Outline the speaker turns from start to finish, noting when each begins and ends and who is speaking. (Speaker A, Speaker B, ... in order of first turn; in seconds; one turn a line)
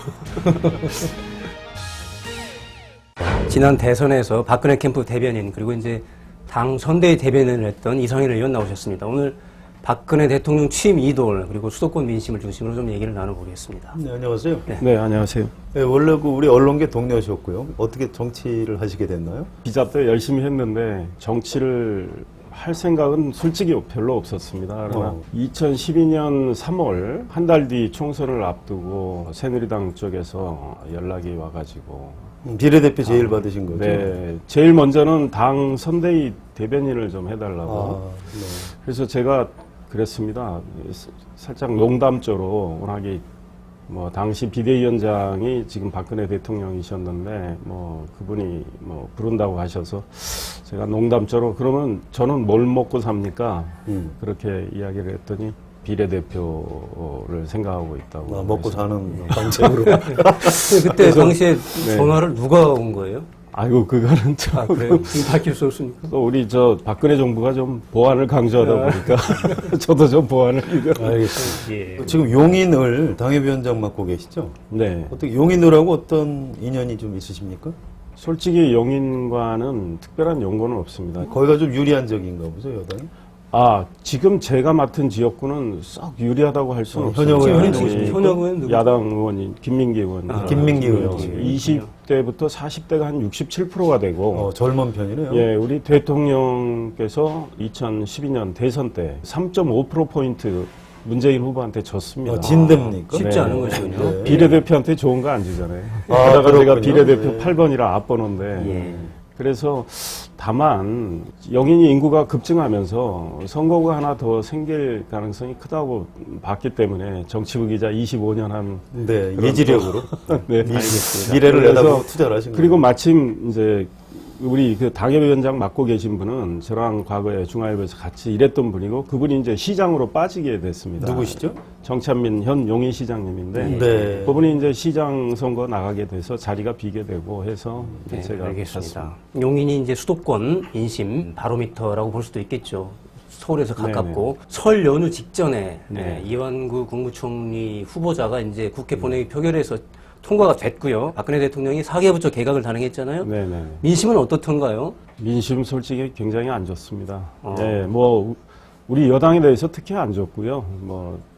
Speaker A: 0.3-1.1
Speaker A: 3.4-14.0
Speaker B: 13.9-14.7
Speaker C: 14.8-15.5
Speaker B: 15.7-19.5
Speaker C: 19.6-32.3
Speaker B: 24.9-25.2
Speaker B: 32.4-34.2
Speaker C: 33.0-38.0
Speaker B: 37.6-38.7
Speaker C: 38.7-43.2
Speaker C: 43.9-62.2
Speaker B: 53.9-54.1
Speaker B: 58.2-61.2
Speaker A: 59.9-63.3
Speaker C: 63.5-65.4
Speaker A: 64.5-66.1
Speaker C: 66.1-71.6
Speaker A: 69.2-69.7
Speaker B: 70.9-77.8
Speaker A: 71.3-72.2
Speaker C: 74.7-75.2
Speaker C: 78.2-81.3
Speaker B: 81.2-83.1
Speaker C: 83.5-94.5
Speaker B: 86.9-88.4
Speaker A: 87.3-88.8
Speaker A: 90.3-91.9
Speaker B: 90.4-91.6
Speaker B: 94.3-95.5
Speaker C: 95.3-139.1
Speaker B: 102.2-104.6
Speaker A: 102.4-104.6
Speaker B: 106.1-107.6
Speaker A: 108.5-109.1
Speaker B: 108.6-109.1
Speaker B: 118.9-122.8
Speaker A: 120.6-121.4
Speaker B: 131.0-131.6
Speaker A: 133.6-134.2
Speaker B: 133.6-134.5
Speaker A: 138.1-153.3
Speaker C: 143.8-144.3
Speaker C: 145.9-146.3
Speaker C: 153.2-153.8
Speaker A: 153.8-155.0
Speaker C: 155.2-161.2
Speaker A: 157.4-157.8